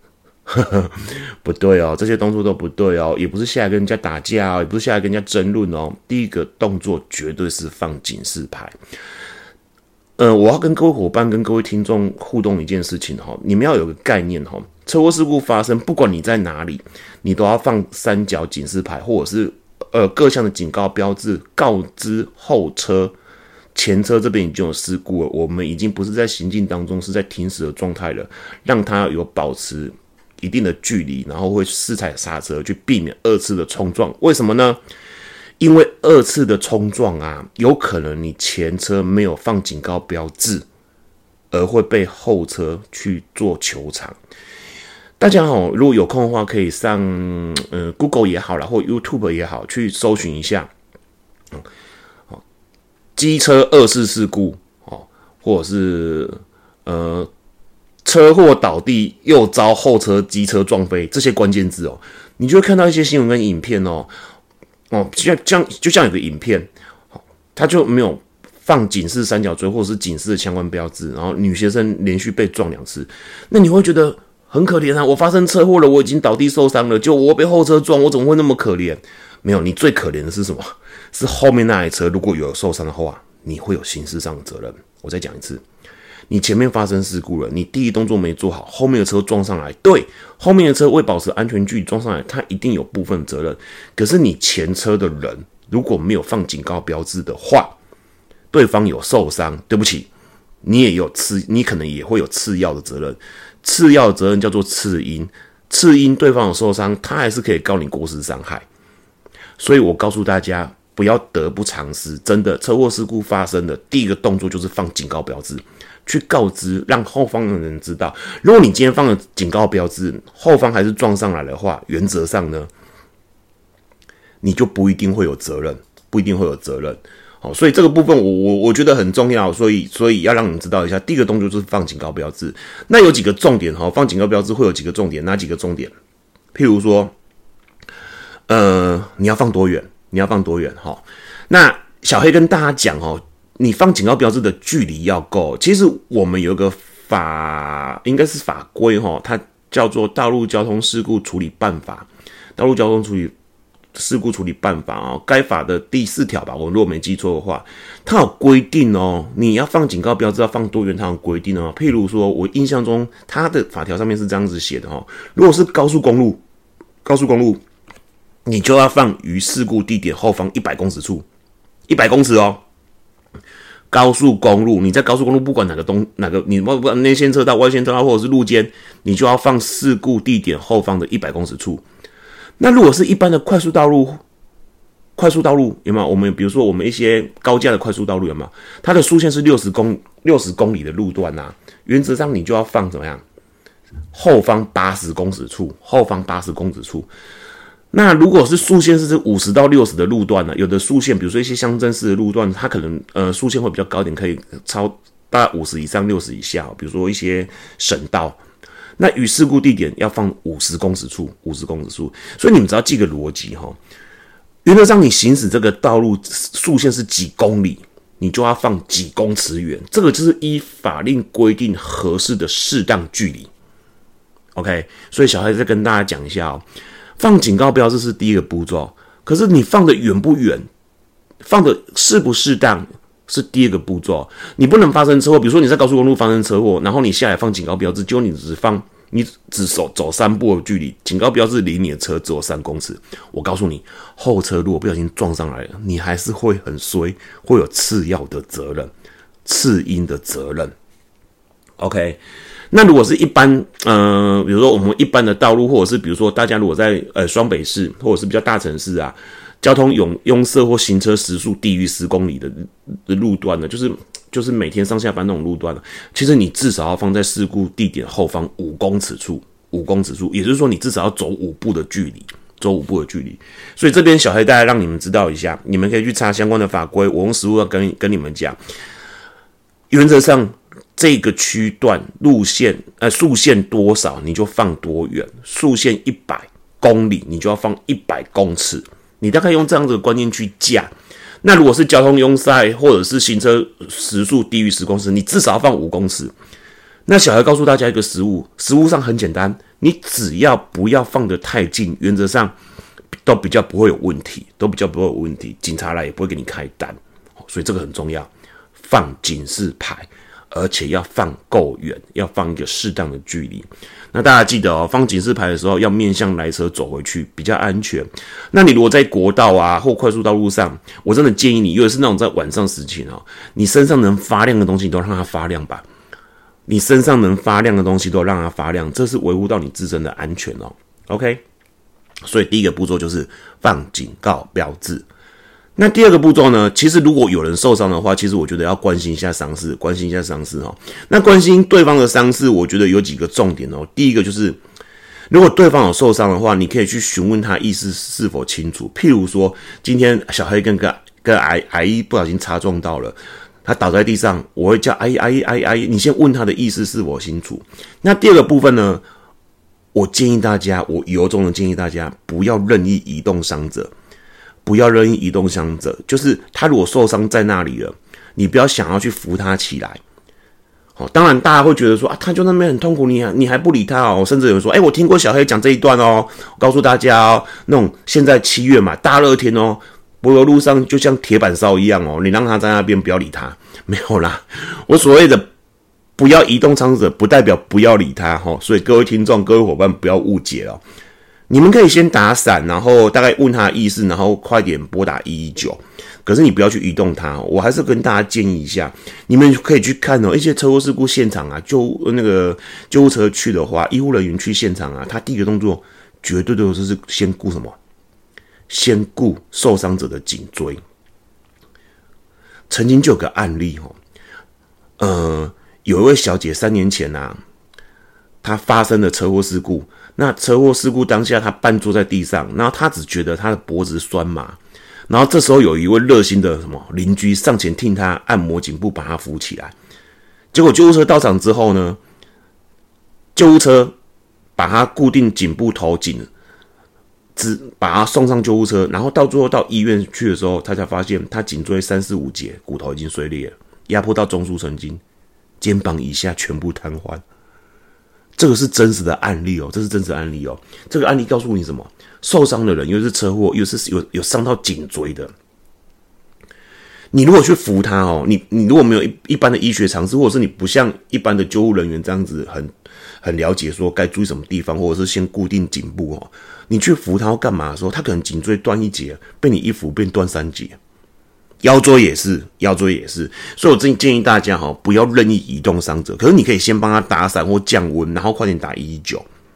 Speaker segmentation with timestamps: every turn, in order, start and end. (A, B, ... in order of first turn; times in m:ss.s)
0:00.5-0:08.8 A
0:10.2-0:23.2 A
0:23.8-0:34.8 A
0:35.6-0:40.7 A
0:41.5-0:44.2 A
0:45.2-0:50.7 A
0:53.2-0:57.3 A
0:58.0-1:04.1 A
1:04.9-1:25.6 A
1:26.3-1:37.8 A
1:38.5-1:40.1 A
1:40.6-1:48.7 A
1:49.6-2:02.7 A
2:04.4-2:15.9 A
2:16.5-2:17.1 A
2:18.5-2:33.3 A
2:34.0-2:46.4 A
2:47.0-2:47.6 A
2:48.5-2:51.3 A
2:51.9-2:52.6 A
2:53.9-3:01.8 A
3:02.6-3:04.2 A
3:05.2-3:13.2 A
3:14.1-3:17.1 A
3:17.9-3:28.4 A
3:29.0-3:33.8 A
3:34.6-3:43.5 A
3:44.6-3:46.6 A
3:47.2-3:50.7 A
3:51.4-4:08.9 A
4:09.4-4:10.7 A
4:11.8-4:38.6 A
4:39.9-4:50.9 A
4:51.4-4:56.3 A
4:57.1-5:02.6 A
5:03.2-5:25.9 A
5:26.7-5:31.4 A
5:32.2-5:35.1 A
5:35.8-5:44.6 A
5:45.3-5:59.0 A
5:59.9-6:03.9 A
6:04.6-6:10.0 A
6:11.0-6:25.5 A
6:26.2-6:30.8 A
6:31.5-6:47.8 A
6:48.7-6:50.8 A
6:52.7-6:54.0 A
6:55.0-6:57.4 A
6:58.4-7:09.7 A
7:10.5-7:12.0 A
7:13.4-7:14.0 A
7:14.6-7:16.3 A
7:17.4-7:25.0 A
7:25.6-7:27.2 A
7:28.4-7:35.3 A
7:37.1-7:42.7 A
7:43.2-7:50.8 A
7:51.6-7:59.3 A